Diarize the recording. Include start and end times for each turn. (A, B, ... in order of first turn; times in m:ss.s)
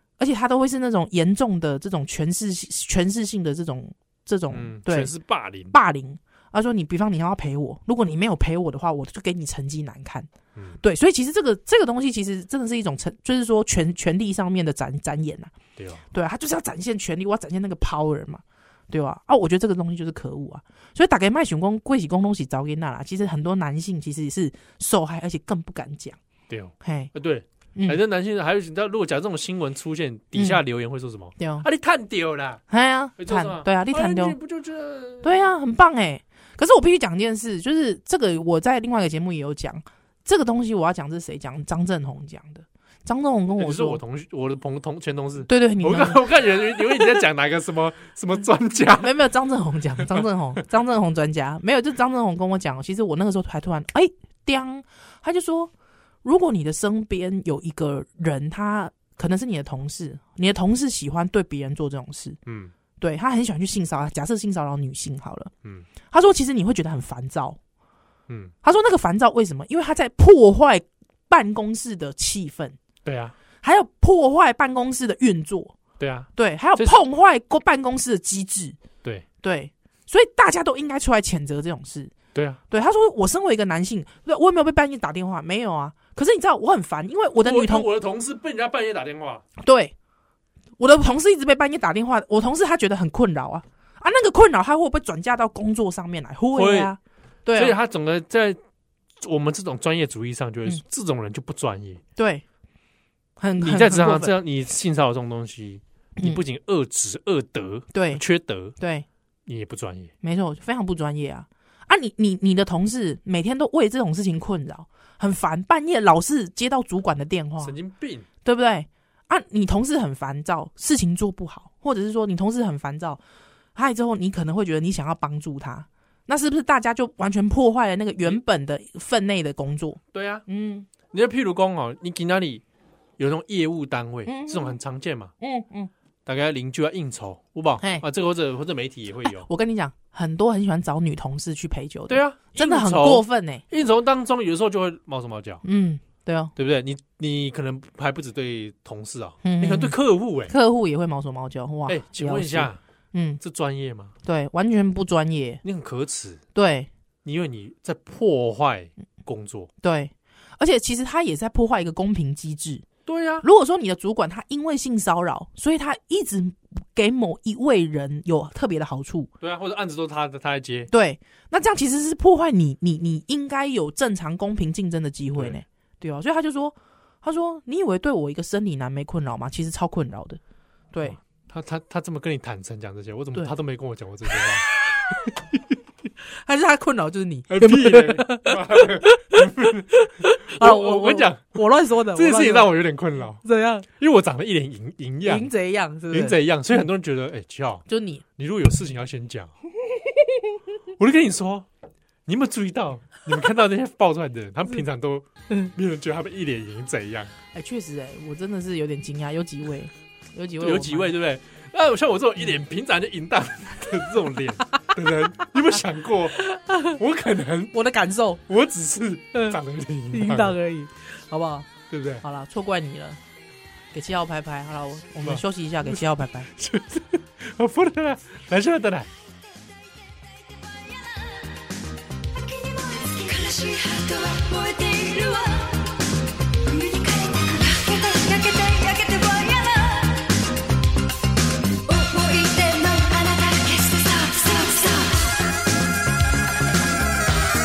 0:00.2-0:05.1 A
0:04.5-0:05.7 B
0:05.7-0:10.3 A
0:10.6-0:10.8 B
0:10.8-0:15.5 A
0:15.8-0:16.0 B
0:16.1-0:26.2 A
0:26.5-0:32.6 B
0:26.8-0:27.1 A
0:30.4-0:30.6 A
0:31.4-0:31.7 A
0:32.7-0:34.4 A
0:33.2-0:35.3 B
0:35.2-0:44.0 A
0:43.6-0:49.1 B
0:45.5-0:47.2 A
0:49.0-0:55.7 A
0:56.2-1:02.4 A
1:02.5-1:02.7 B
1:03.0-1:05.5 A
1:06.1-1:07.6 A
1:08.3-1:08.5 B
1:08.6-1:12.8 A
1:13.0-1:13.4 B
1:13.6-1:15.8 A
1:16.0-1:17.0 B
1:16.4-1:18.8 A
1:19.4-1:22.2 A
1:22.3-1:22.6 B
1:22.7-1:27.9 A
1:27.4-1:29.4 B
1:29.6-1:29.9 A
1:30.8-1:37.8 A
1:36.5-1:36.9 B
1:37.6-1:38.6 B
1:39.2-1:42.0 B
1:42.2-1:42.4 A
1:43.4-1:44.3 A
1:43.6-1:48.8 B
1:47.9-1:48.2 A
1:48.8-1:49.1 A
1:49.5-1:50.1 B
1:50.2-1:57.8 A
1:57.6-1:58.3 B
1:58.4-2:03.2 A
2:03.8-2:10.9 A
2:10.1-2:10.4 B
2:11.0-2:12.6 B
2:13.2-2:15.3 B
2:14.3-2:14.8 A
2:15.4-2:15.9 A
2:16.3-2:19.5 B
2:19.2-2:23.6 A
2:22.1-2:25.6 B
2:25.6-2:26.5 A
2:26.6-2:30.5 B
2:29.4-2:33.4 A
2:31.9-2:32.8 B
2:33.4-2:34.2 B
2:34.2-2:35.6 A
2:35.6-2:36.4 B
2:36.6-2:36.9 A
2:37.2-2:39.7 B
2:39.8-2:42.9 A
2:43.1-2:43.5 B
2:43.4-2:49.3 A
2:49.4-2:50.9 B
2:50.9-3:00.4 A
2:55.3-2:55.6 B
3:00.9-3:01.2 A
3:01.0-3:04.7 B
3:06.4-3:12.8 A
3:07.5-3:15.5 B
3:13.4-3:13.9 A
3:15.2-3:16.4 A
3:16.1-3:17.8 B
3:17.9-3:18.2 A
3:18.4-3:19.5 B
3:19.9-3:20.5 A
3:21.0-3:21.7 B
3:22.3-3:27.3 B
3:27.5-3:31.1 A
3:30.6-3:37.7 B
3:36.4-3:37.0 A
3:37.7-3:38.4 A
3:38.5-3:40.6 B
3:39.3-3:39.6 A
3:40.1-3:41.7 A
3:41.9-3:42.2 B
3:42.2-3:43.2 A
3:43.9-3:46.5 A
3:45.2-3:46.0 B
3:46.5-3:49.1 B
3:49.9-3:51.6 C
3:52.3-3:56.0 C
3:56.6-4:00.4 C
4:01.8-4:05.5 C